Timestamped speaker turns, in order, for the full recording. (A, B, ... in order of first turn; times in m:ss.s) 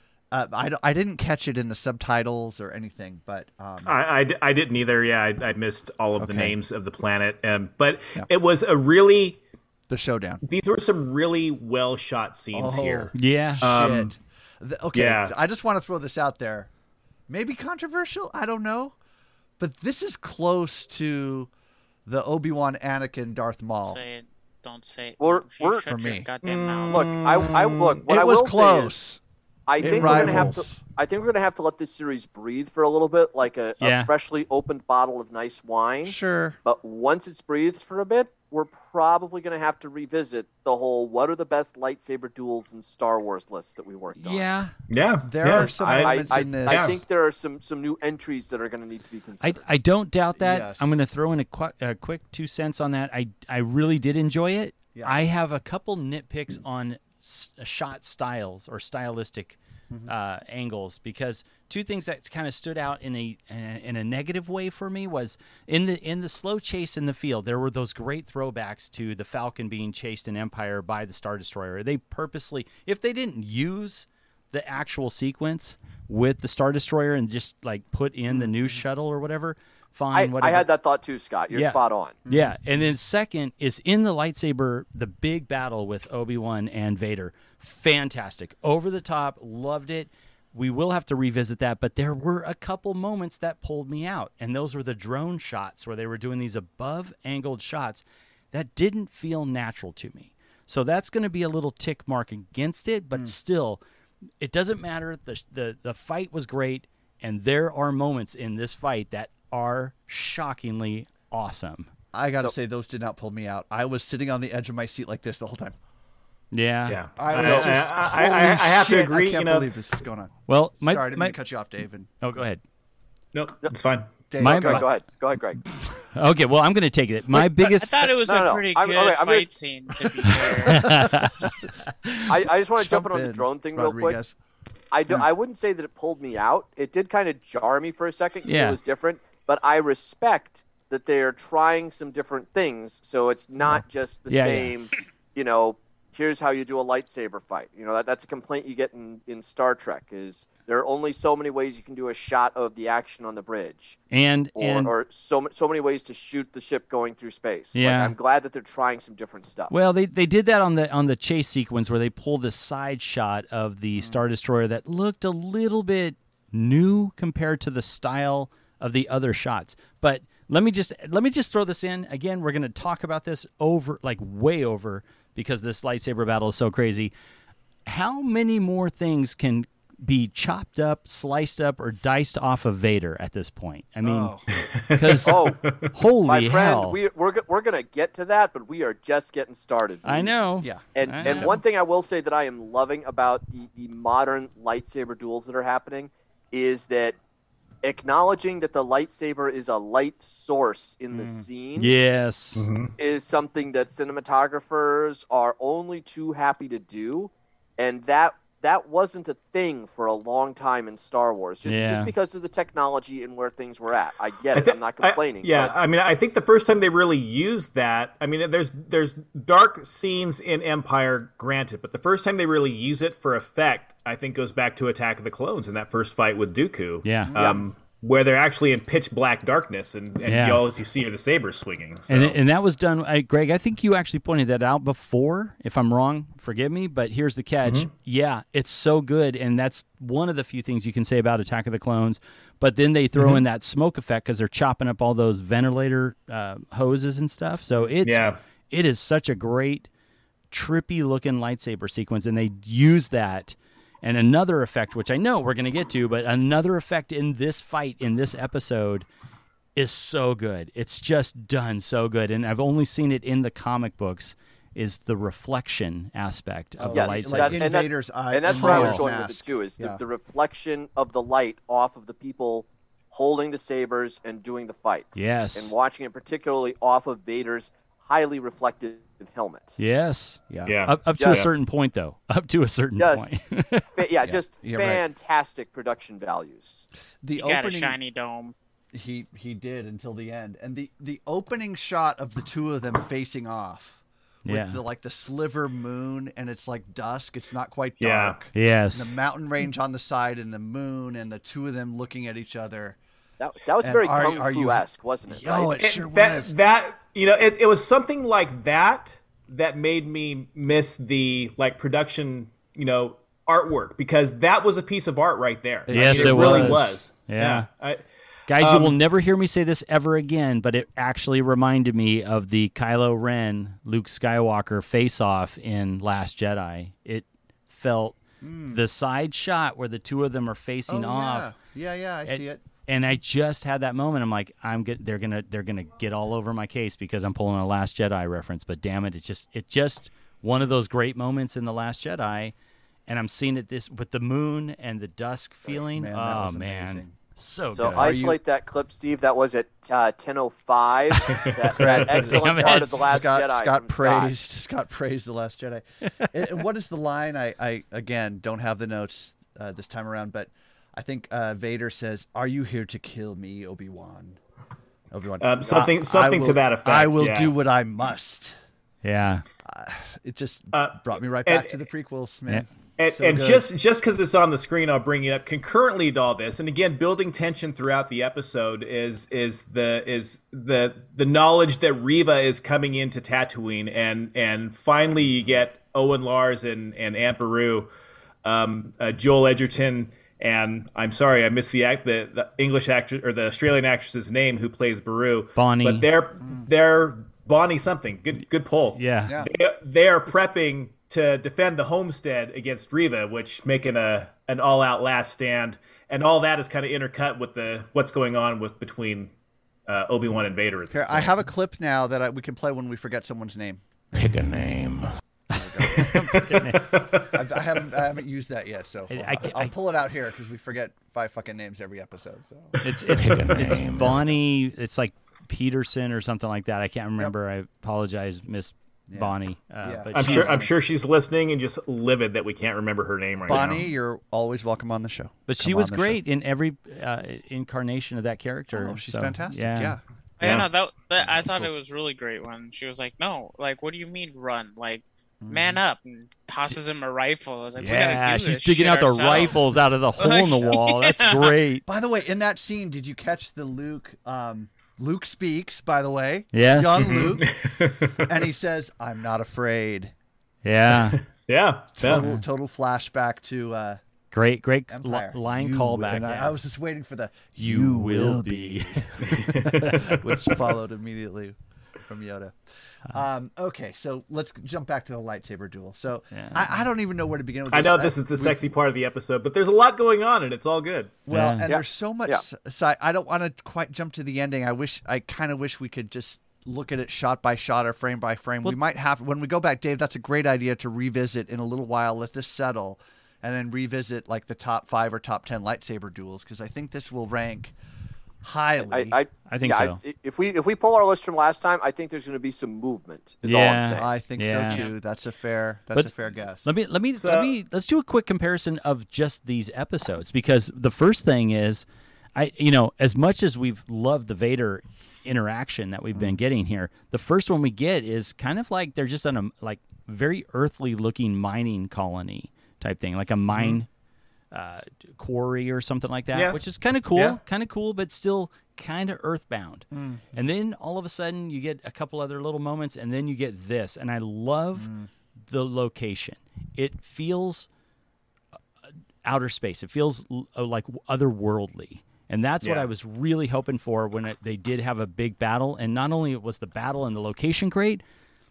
0:00.3-0:04.0 A
0:03.8-0:09.4 B
0:06.2-0:06.5 A
0:09.9-0:10.4 A
0:10.4-0:14.1 B
0:12.5-0:16.7 A
0:13.1-0:13.7 C
0:14.9-0:15.3 B
0:17.3-0:18.9 A
0:19.6-0:21.5 A
0:22.0-0:24.0 A
0:23.8-0:27.1 D
0:25.2-0:25.9 E
0:25.8-0:26.3 A
0:26.4-0:28.0 B
0:26.9-0:28.9 E
0:28.0-0:29.2 A
0:29.7-0:44.5 E
0:29.8-0:30.8 A
0:30.0-0:30.3 B
0:33.8-0:34.1 C
0:36.0-0:36.6 A
0:44.1-0:44.7 C
0:44.9-0:47.0 B
0:45.2-0:47.0 A
0:45.7-0:49.6 E
0:49.4-1:20.7 C
0:50.4-0:51.0 A
0:54.9-0:55.2 A
1:18.3-1:18.8 A
1:20.1-1:22.2 E
1:21.5-1:43.8 C
1:44.4-1:51.9 C
1:52.1-1:55.8 A
1:56.5-1:57.0 C
1:56.9-1:59.7 B
1:57.2-2:02.1 A
2:00.5-2:01.4 C
2:02.2-2:02.6 C
2:03.3-2:04.1 B
2:04.3-2:04.9 A
2:04.4-2:04.8 C
2:04.4-2:05.6 E
2:06.1-2:07.9 C
2:07.7-2:11.1 D
2:08.2-2:09.5 E
2:10.3-2:12.3 C
2:12.3-2:14.2 E
2:12.4-2:14.4 A
2:14.9-2:34.0 E
2:18.4-2:18.8 C
2:24.3-2:24.7 C
2:34.1-2:34.9 C
2:34.6-2:39.7 E
2:37.7-2:38.1 C
2:39.7-2:57.1 C
2:44.0-2:44.2 A
2:57.9-3:04.3 C
3:04.0-3:04.5 A
3:04.6-3:05.8 B
3:04.9-3:07.0 C
3:05.2-3:05.6 E
3:06.2-3:10.3 E
3:10.0-3:11.6 C
3:10.6-3:11.6 A
3:10.9-3:17.2 E
3:17.8-3:21.9 E
3:21.1-3:21.5 A
3:21.8-3:22.6 C
3:22.6-3:22.9 B
3:23.0-3:35.7 E
3:31.6-3:32.1 C
3:34.5-3:52.4 B
3:47.0-3:47.3 C
3:47.3-3:47.6 A
3:50.2-3:50.6 C
3:52.1-4:09.9 C
3:57.6-3:57.9 B
4:03.2-4:03.4 B
4:08.0-4:08.4 B
4:10.5-4:19.1 C
4:19.8-4:27.7 C
4:26.8-4:30.0 A
4:26.9-4:39.8 E
4:28.5-4:29.0 C
4:35.1-4:35.7 C
4:39.8-4:43.9 C
4:40.5-4:40.8 A
4:40.6-4:41.5 B
4:41.2-4:41.4 E
4:43.0-4:43.3 E
4:43.9-4:46.9 E
4:44.2-4:45.0 A
4:47.2-4:48.0 A
4:47.4-4:48.5 D
4:48.9-5:03.0 A
4:54.4-4:54.8 C
4:58.0-4:58.4 B
4:58.5-4:59.1 C
5:03.4-5:05.8 E
5:03.8-5:06.5 A
5:05.8-5:18.0 B
5:15.9-5:17.0 A
5:15.9-5:17.7 C
5:18.5-5:31.5 C
5:18.6-5:19.0 B
5:28.4-5:28.8 A
5:30.9-5:32.6 A
5:32.2-5:42.5 C
5:43.1-5:48.2 C
5:45.7-5:47.2 A
5:47.7-5:48.4 A
5:47.7-5:54.3 E
5:51.3-5:52.4 B
5:51.8-6:04.4 A
5:52.3-5:53.2 C
6:05.1-6:08.5 A
6:05.4-6:07.5 B
6:09.0-6:09.4 C
6:09.6-6:13.7 A
6:10.7-6:11.8 B
6:13.0-6:27.9 B
6:28.4-6:49.3 B
6:35.6-6:36.1 C
6:38.9-6:39.4 C
6:39.2-6:39.5 A
6:49.9-6:51.3 B
6:50.9-6:53.8 A
6:54.1-6:55.1 F
6:55.5-6:56.2 A
6:55.5-6:57.0 C
6:56.0-6:57.4 B
6:57.3-7:02.8 A
6:59.1-6:59.7 C
7:02.8-7:10.6 C
7:03.1-7:04.3 F
7:09.1-7:10.7 A
7:10.1-7:13.9 B
7:13.5-7:16.2 A
7:15.5-7:20.6 C
7:18.7-7:20.6 A
7:20.4-7:31.6 D
7:25.4-7:25.8 A
7:27.8-7:31.8 C
7:31.9-7:37.5 A
7:36.5-7:37.2 C
7:37.0-7:38.3 B
7:38.2-7:40.1 A
7:40.6-7:41.2 C
7:40.9-7:42.2 B
7:42.0-7:44.0 A
7:42.1-7:42.4 C
7:44.3-7:46.5 C
7:44.9-7:51.6 A
7:47.6-7:50.2 C
7:49.4-7:50.0 B
7:52.1-7:58.6 A
7:56.3-7:56.7 C
7:57.7-8:01.2 B
8:01.2-8:17.7 A
8:01.3-8:01.7 C
8:01.7-8:02.4 E
8:18.4-8:19.2 A
8:18.8-8:24.1 E
8:19.5-8:20.0 C
8:23.4-8:24.8 C
8:24.0-8:26.7 A
8:26.6-8:43.9 C
8:27.2-8:27.5 B
8:44.5-8:54.9 C
8:46.3-8:46.6 B
8:49.9-8:50.2 A
8:54.8-8:55.1 A
8:55.5-8:57.7 C
8:59.2-9:08.0 C
9:02.6-9:02.9 B